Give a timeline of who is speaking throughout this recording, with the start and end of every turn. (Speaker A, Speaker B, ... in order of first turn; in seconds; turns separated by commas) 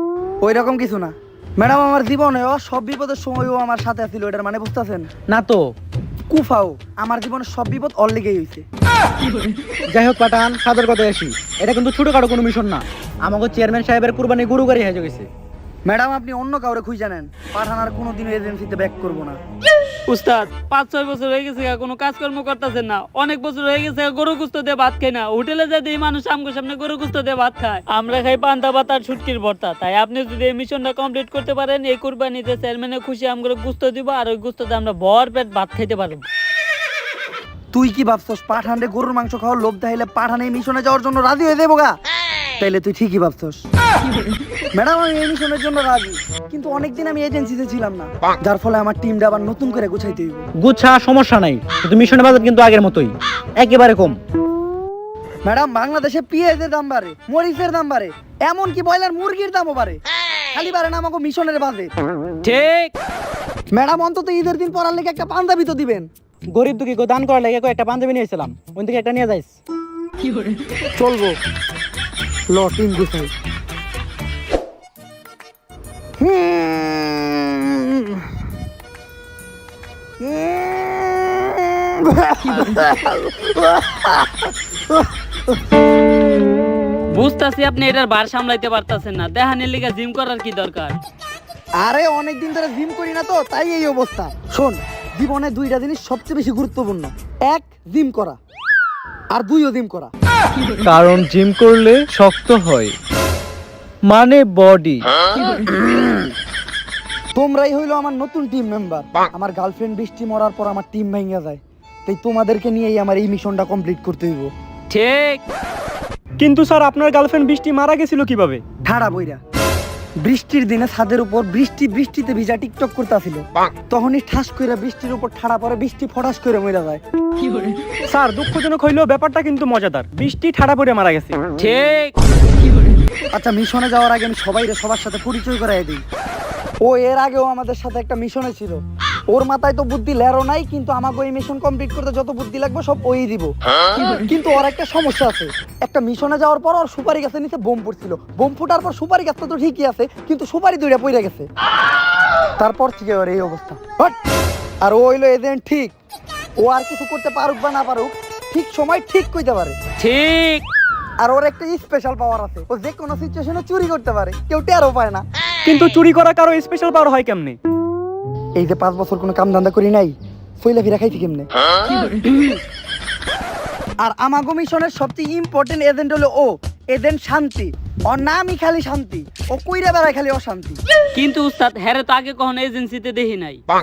Speaker A: 0.4-5.1, Speaker B: 5.3-5.6, Speaker A: 6.3-8.7, Speaker B: 9.9-15.3, Speaker A: 15.9-19.4, Speaker C: 20.1-36.2, Speaker A: 37.7-42.0, Speaker A: 42.6-43.6, Speaker A: 44.7-50.5, Speaker B: 50.6-54.2, Speaker A: 55.5-60.0, Speaker A: 60.5-61.9, Speaker C: 62.4-62.9, Speaker A: 63.7-66.1, Speaker B: 66.5-69.6, Speaker A: 71.0-71.4, Speaker A: 72.5-73.3, Speaker A: 76.2-78.2, Speaker A: 80.2-85.5, Speaker C: 87.1-91.0, Speaker A: 91.8-98.4, Speaker A: 99.3-100.1, Speaker D: 100.8-103.0, Speaker D: 104.0-105.1, Speaker A: 105.9-106.2, Speaker A: 107.3-114.5, Speaker C: 114.9-115.4, Speaker E: 116.4-118.6, Speaker A: 118.8-119.4, Speaker A: 120.2-127.0, Speaker E: 128.1-131.4, Speaker C: 131.6-132.1, Speaker A: 133.3-136.1, Speaker A: 136.8-143.5, Speaker A: 144.2-151.5, Speaker A: 152.6-154.2, Speaker A: 154.8-155.9, Speaker A: 156.6-159.8, Speaker C: 160.0-160.6, Speaker A: 161.2-165.2, Speaker E: 165.7-167.6, Speaker A: 168.6-171.5, Speaker A: 174.0-180.8, Speaker C: 181.2-183.6